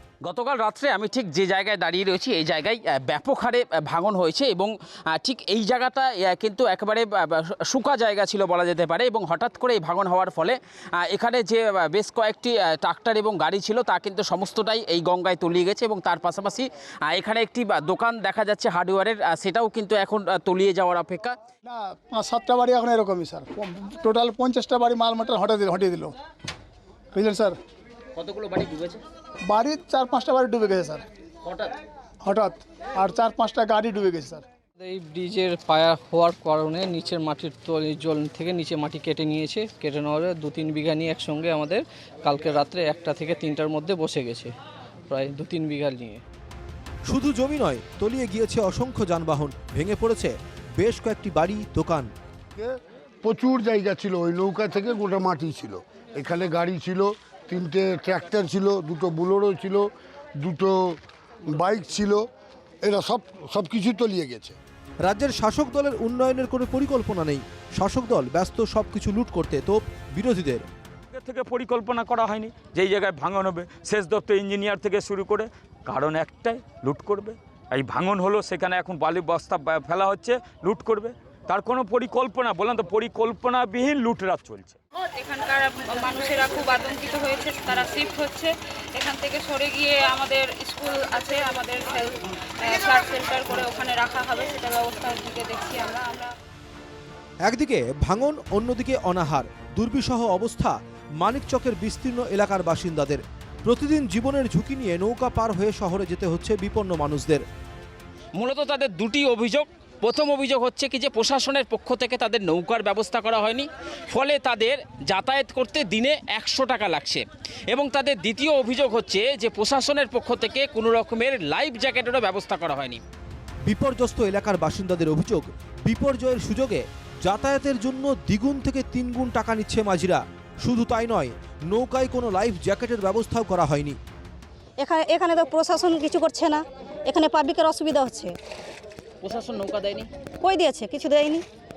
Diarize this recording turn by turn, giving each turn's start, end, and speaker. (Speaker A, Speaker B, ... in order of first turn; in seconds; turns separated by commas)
Speaker A: 0.2-21.4, Speaker B: 21.6-26.1, Speaker B: 27.1-27.6, Speaker A: 28.1-29.0, Speaker B: 29.5-31.0, Speaker A: 31.4-31.7, Speaker B: 32.2-34.4, Speaker C: 34.8-44.5, Speaker C: 45.1-46.2, Speaker D: 47.1-52.1, Speaker E: 52.5-61.0, Speaker E: 61.5-62.2, Speaker E: 62.8-64.5, Speaker D: 65.1-70.6, Speaker F: 71.1-84.8, Speaker G: 85.1-96.3, Speaker D: 97.5-107.4, Speaker A: 108.4-123.0, Speaker D: 123.7-134.0, Speaker H: 134.8-138.3, Speaker A: 139.2-140.1, Speaker H: 140.4-141.4